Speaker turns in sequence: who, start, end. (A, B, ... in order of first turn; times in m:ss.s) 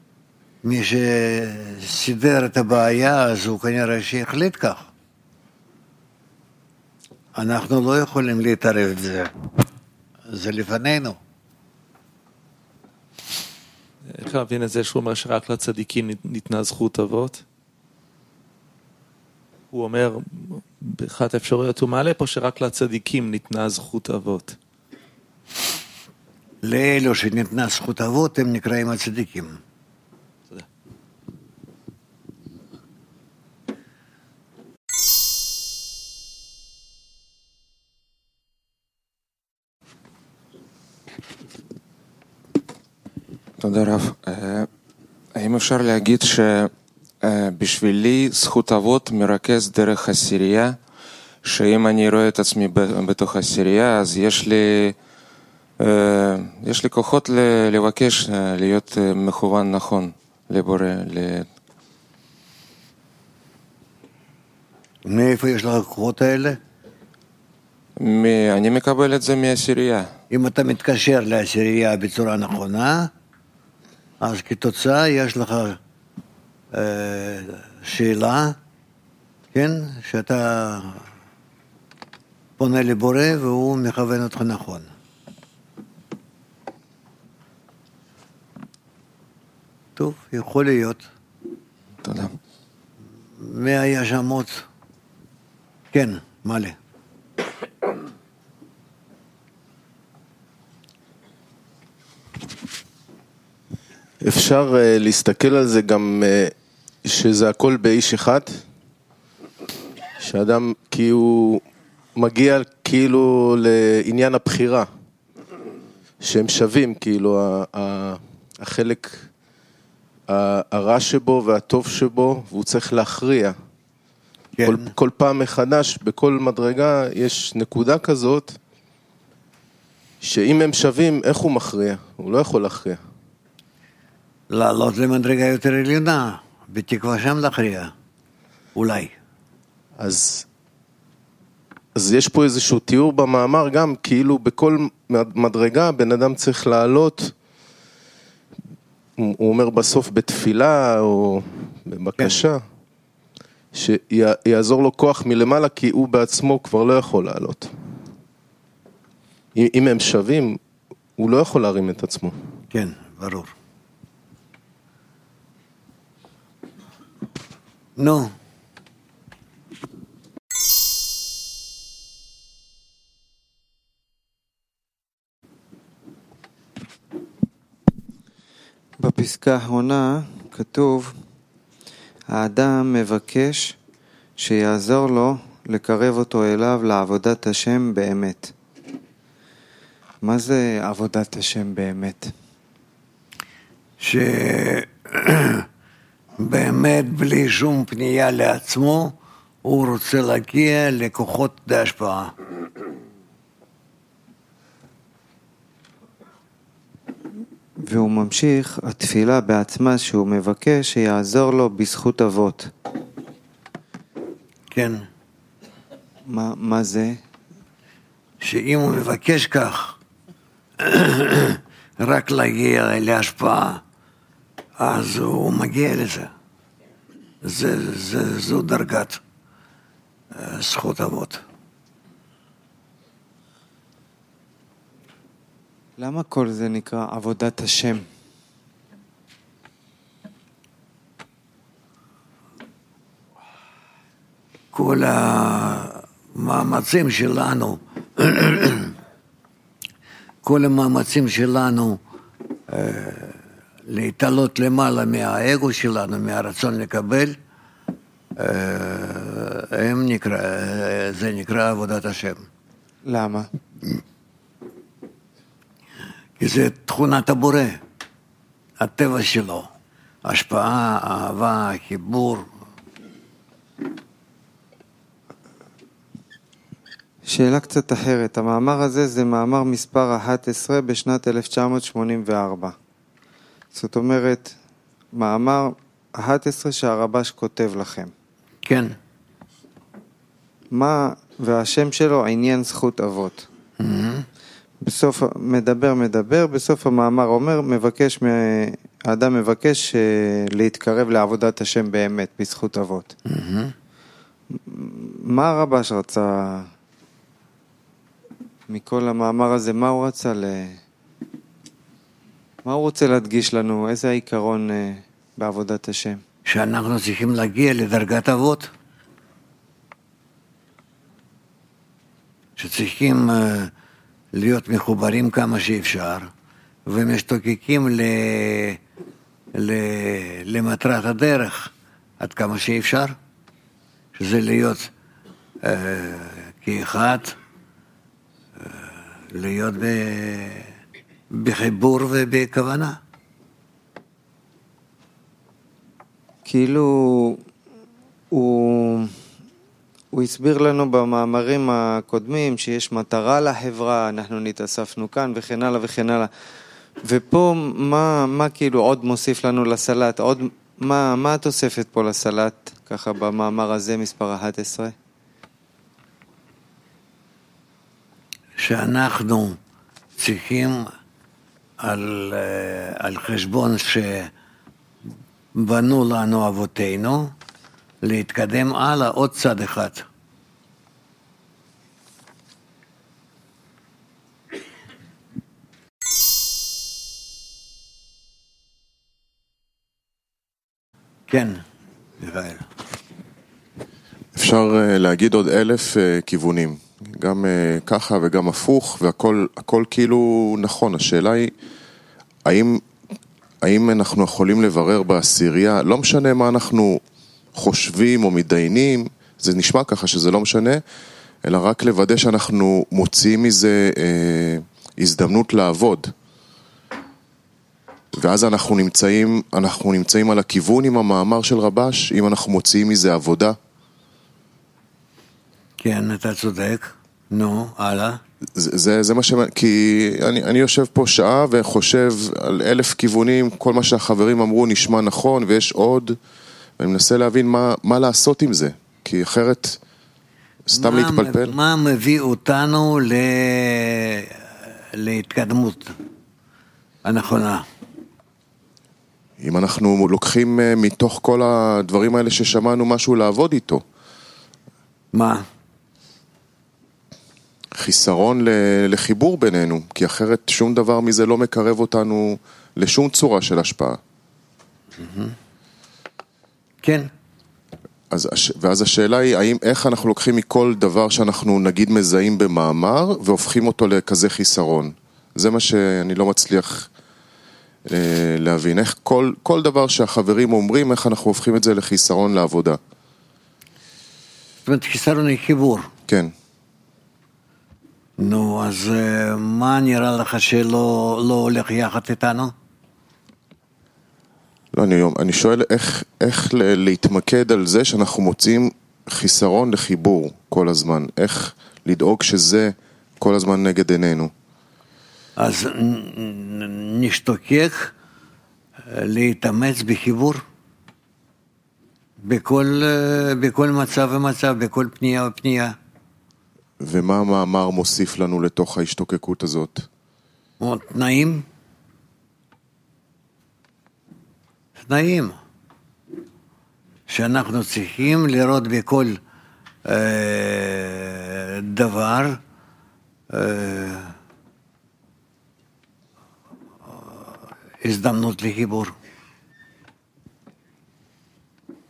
0:00.6-0:04.9 A
0:07.3-0:09.3 A
0:10.3-0:11.2 A
0:14.1-0:17.4 B
0:19.7-0:24.6 B
0:26.6-0:29.6 A
0:43.6-0:44.7 C
0:45.3-0:50.8 C
0:51.4-0:55.0 C
0:55.8-1:01.5 C
1:05.0-1:06.6 A
1:08.0-1:10.1 C
1:10.3-1:13.1 A
1:14.2-1:15.8 A
1:16.7-1:18.6 A
1:19.5-1:21.0 A
1:22.6-1:24.9 A
1:30.0-1:31.1 A
1:32.0-1:32.4 C
1:33.4-1:34.6 A
1:35.9-1:36.8 A
1:44.2-1:46.5 D
1:47.0-1:48.6 D
1:50.2-1:51.6 D
1:52.2-1:54.9 D
1:56.2-1:59.3 D
2:00.3-2:03.6 D
2:04.6-2:04.9 A
2:04.6-2:08.6 D
2:10.2-2:13.0 D
2:14.5-2:17.9 A
2:18.7-2:19.1 A
2:20.0-2:20.4 D
2:22.0-2:27.3 D
2:29.2-2:32.6 D
2:32.2-2:32.4 A
2:33.7-2:37.7 D
2:39.5-2:40.6 D
2:41.2-2:42.4 D
2:42.7-2:43.5 A
2:48.0-2:48.3 A
2:59.0-3:01.2 E
3:02.3-3:03.7 E
3:04.4-3:08.5 E
3:10.2-3:12.3 E
3:14.0-3:15.7 A
3:16.4-3:22.3 A
3:27.8-3:32.7 E
3:34.7-3:35.0 A
3:36.2-3:37.2 E
3:38.4-3:40.0 A
3:40.8-3:43.8 A
3:44.8-3:46.3 A
3:47.4-3:49.2 A
3:50.3-3:51.4 A
3:56.0-3:58.1 E
4:04.7-4:08.9 A
4:10.4-4:12.0 A
4:12.7-4:17.4 A
4:18.4-4:22.4 A
4:23.0-4:23.5 E
4:26.4-4:27.8 A
4:28.8-4:29.7 A
4:30.2-4:32.5 A
4:37.2-4:42.7 E
4:43.7-4:44.5 E
4:45.1-4:48.1 E
4:48.6-4:49.0 A
4:50.7-4:53.5 E
4:53.8-4:54.3 A
4:54.8-5:03.1 E
5:03.2-5:03.7 A
5:04.5-5:06.7 E
5:08.7-5:10.8 E
5:12.6-5:16.2 E
5:16.5-5:18.7 A
5:22.6-5:23.7 A
5:24.3-5:26.3 A
5:26.8-5:28.8 A
5:29.5-5:33.2 A
5:34.1-5:34.9 A
5:35.6-5:37.4 A
5:38.6-5:40.7 A
5:41.3-5:43.0 A
5:46.4-5:47.4 E
5:48.3-5:49.2 E
5:50.1-5:56.3 E
5:57.0-6:04.9 E
6:08.6-6:09.6 A
6:10.2-6:10.9 A
6:11.8-6:14.3 A
6:15.5-6:17.3 A
6:18.0-6:20.0 A
6:31.3-6:31.6 A
6:32.2-6:32.7 A
6:34.3-6:41.5 F
6:42.4-6:42.8 F
6:43.6-6:47.0 F
6:47.5-6:50.8 F
6:51.4-6:56.1 F
6:58.1-7:03.6 F
7:05.8-7:08.2 A
7:08.6-7:16.2 F
7:16.8-7:19.8 F
7:20.7-7:21.5 F
7:20.7-7:25.9 A
7:27.0-7:27.6 A
7:29.4-7:33.8 F
7:35.1-7:35.4 A
7:37.8-7:44.0 F
7:44.9-7:45.3 A
7:46.8-7:47.1 A
7:48.1-7:56.9 F
7:57.9-8:02.8 F
8:04.6-8:05.9 A
8:06.1-8:06.3 F
8:08.2-8:12.5 A
8:14.7-8:24.3 F
8:25.4-8:27.9 A
8:28.9-8:30.4 A
8:32.2-8:35.8 A
8:36.8-8:39.9 F
8:40.6-8:41.4 A
8:44.8-8:45.4 A
8:47.1-8:49.2 A
8:49.8-8:52.4 A
8:53.3-8:54.1 A
8:57.8-8:58.9 A